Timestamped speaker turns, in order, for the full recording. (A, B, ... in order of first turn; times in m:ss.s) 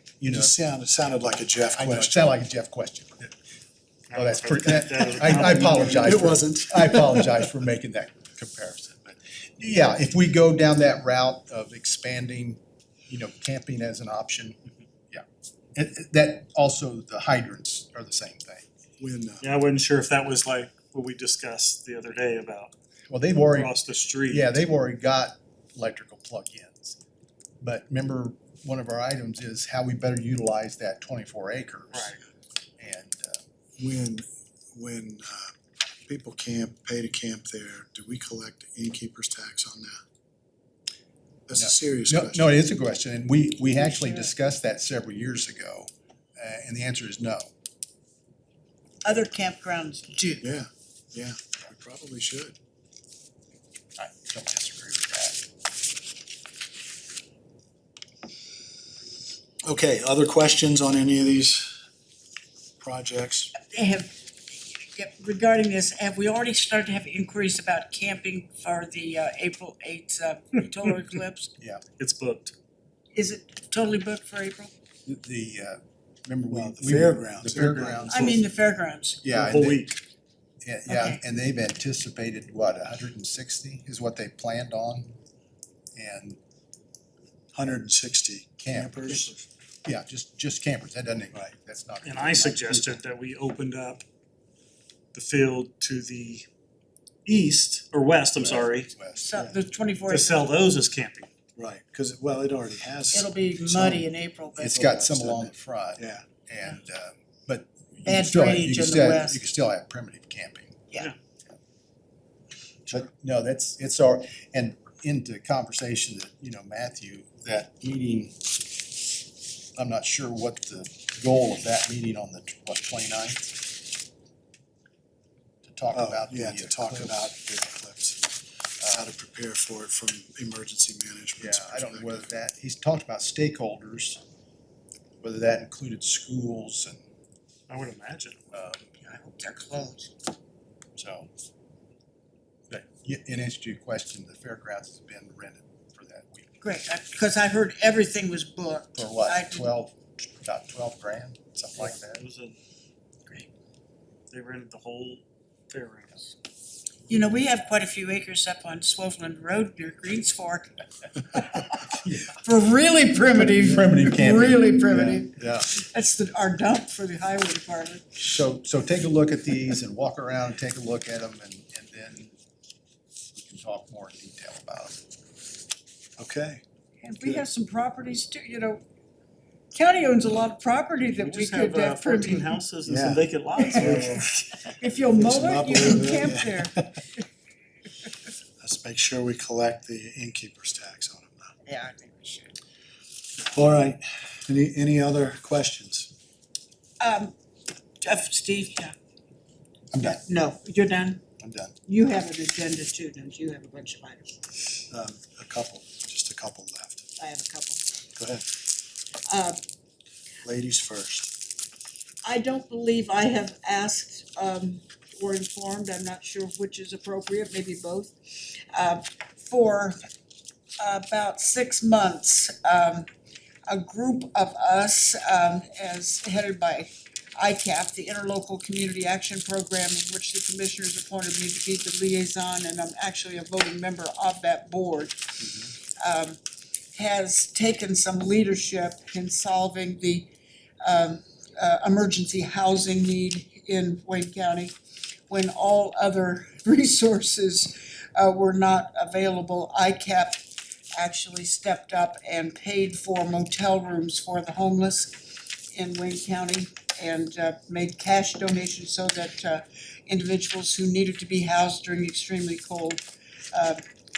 0:00.2-0:00.5 A
0:00.3-0:02.2 B
0:01.7-0:03.3 A
0:04.1-0:06.1 C
0:04.1-0:14.6 A
0:05.3-0:07.5 B
0:15.1-0:18.6 A
0:19.0-0:19.5 B
0:19.4-0:22.7 C
0:23.1-0:23.7 A
0:23.5-0:24.5 C
0:24.3-0:27.0 A
0:27.6-0:32.1 A
0:31.9-0:32.2 C
0:32.8-0:33.4 A
0:33.8-0:35.5 B
0:36.1-0:40.0 B
0:41.5-0:42.6 B
0:41.6-0:47.5 A
0:43.9-0:44.3 D
0:49.0-0:50.4 D
0:50.4-0:52.5 B
0:54.0-0:55.4 A
0:59.6-1:01.8 B
1:02.8-1:03.5 B
1:03.7-1:04.2 D
1:04.8-1:11.5 D
1:12.0-1:12.5 C
1:13.1-1:14.7 D
1:15.0-1:18.4 A
1:16.5-1:17.9 B
1:17.6-1:18.4 C
1:18.1-1:19.2 D
1:19.2-1:19.9 A
1:19.3-1:20.0 C
1:20.6-1:25.1 A
1:20.9-1:21.2 D
1:26.0-1:26.4 A
1:27.5-1:29.4 B
1:28.6-1:29.3 A
1:29.8-1:33.0 A
1:32.0-1:34.0 C
1:35.1-1:36.4 C
1:37.2-1:38.9 C
1:38.4-1:39.4 A
1:39.1-1:40.5 D
1:40.1-1:41.3 C
1:41.6-1:44.0 B
1:43.1-1:44.8 D
1:44.6-1:50.8 A
1:44.6-1:46.2 B
1:48.0-1:49.4 D
1:52.9-1:58.5 A
1:59.7-2:03.6 A
2:05.6-2:07.3 A
2:05.9-2:12.2 B
2:11.4-2:14.2 A
2:15.2-2:17.0 A
2:17.7-2:18.4 C
2:18.5-2:18.8 A
2:19.0-2:20.1 D
2:21.0-2:21.3 A
2:22.7-2:26.5 A
2:26.6-2:29.7 D
2:29.0-2:32.2 A
2:31.7-2:32.6 C
2:34.3-2:36.3 C
2:37.1-2:48.1 D
2:42.0-2:42.3 A
2:43.4-2:45.7 A
2:48.1-2:52.3 A
2:53.3-2:55.0 A
2:56.2-2:56.6 B
2:57.0-2:58.8 D
2:59.7-3:02.6 D
3:01.2-3:04.3 C
3:02.8-3:04.2 B
3:03.6-3:06.7 D
3:05.1-3:07.0 B
3:08.6-3:11.5 B
3:11.6-3:12.6 D
3:13.5-3:16.1 B
3:17.0-3:17.3 D
3:18.0-3:18.9 D
3:19.9-3:20.2 A
3:20.0-3:21.2 D
3:21.4-3:21.7 A
3:21.8-3:24.4 D
3:24.9-3:27.0 B
3:27.2-3:27.8 D
3:28.2-3:28.4 B
3:29.3-3:29.6 D
3:30.4-3:31.3 B
3:32.2-3:40.0 D
3:40.8-3:43.1 D
3:43.7-3:56.4 D
3:56.9-4:00.3 D
4:00.8-4:04.7 D
4:05.3-4:10.4 D
4:10.9-4:23.8 D